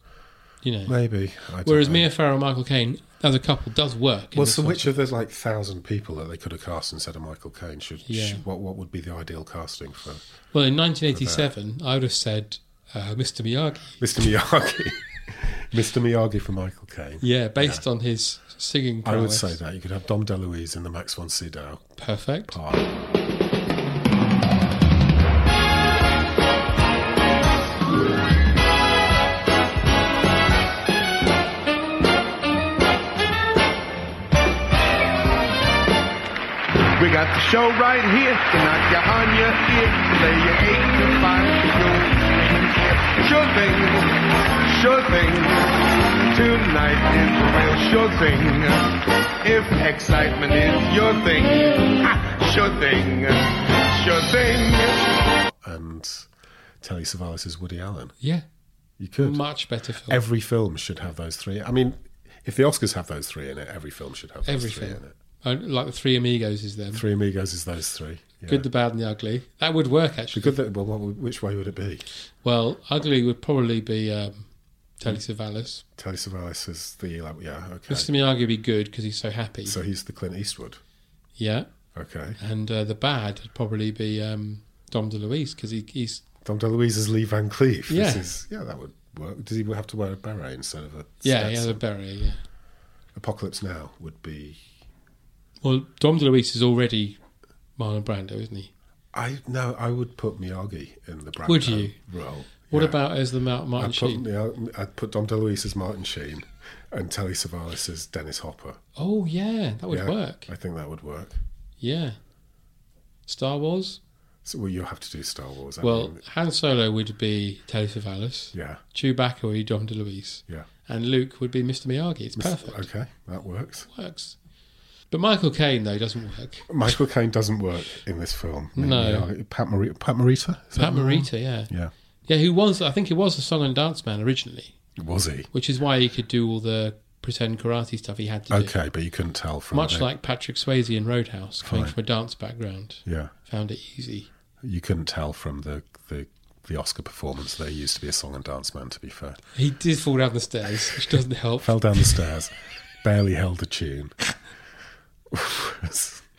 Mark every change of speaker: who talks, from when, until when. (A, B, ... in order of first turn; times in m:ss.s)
0:00.6-0:01.0 A
0:00.9-0:02.1 B
0:01.6-0:05.0 A
0:04.3-0:10.2 B
0:08.1-0:08.4 A
0:10.5-0:14.0 A
0:11.1-0:11.5 B
0:14.0-0:17.8 B
0:17.2-0:19.6 A
0:19.0-0:22.0 B
0:22.0-0:22.6 A
0:22.5-0:22.9 B
0:37.0-0:45.8 C
0:46.3-0:55.2 C
0:55.5-0:56.3 B
0:56.8-0:58.2 B
0:59.0-0:59.4 B
0:59.2-1:00.2 A
1:00.1-1:05.1 B
1:04.5-1:07.0 A
1:06.9-1:08.7 B
1:08.5-1:10.6 A
1:10.3-1:12.1 B
1:12.4-1:14.5 A
1:15.0-1:15.8 A
1:16.0-1:18.1 B
1:17.9-1:19.8 A
1:19.6-1:20.8 B
1:21.4-1:21.7 A
1:21.9-1:22.4 B
1:22.4-1:26.2 A
1:26.4-1:31.8 B
1:27.9-1:28.3 A
1:31.2-1:32.4 A
1:33.2-1:34.7 B
1:35.6-1:37.2 A
1:37.8-1:38.7 A
1:39.1-1:43.0 B
1:41.5-1:42.0 A
1:42.7-1:44.2 A
1:43.8-1:48.8 B
1:49.0-1:50.5 A
1:49.9-1:51.4 B
1:51.8-1:52.2 A
1:53.3-1:54.0 A
1:54.4-1:56.2 B
1:55.8-2:02.9 A
1:58.5-1:58.8 B
2:02.4-2:03.9 B
2:03.9-2:04.4 A
2:05.1-2:06.7 A
2:06.7-2:11.9 B
2:08.8-2:09.3 A
2:10.8-2:11.7 A
2:12.3-2:14.8 A
2:15.0-2:15.5 B
2:15.5-2:18.8 A
2:18.5-2:20.1 B
2:19.7-2:24.3 A
2:21.6-2:22.0 B
2:23.0-2:23.3 B
2:24.6-2:29.4 B
2:29.6-2:32.2 A
2:31.6-2:34.4 B
2:35.3-2:36.2 B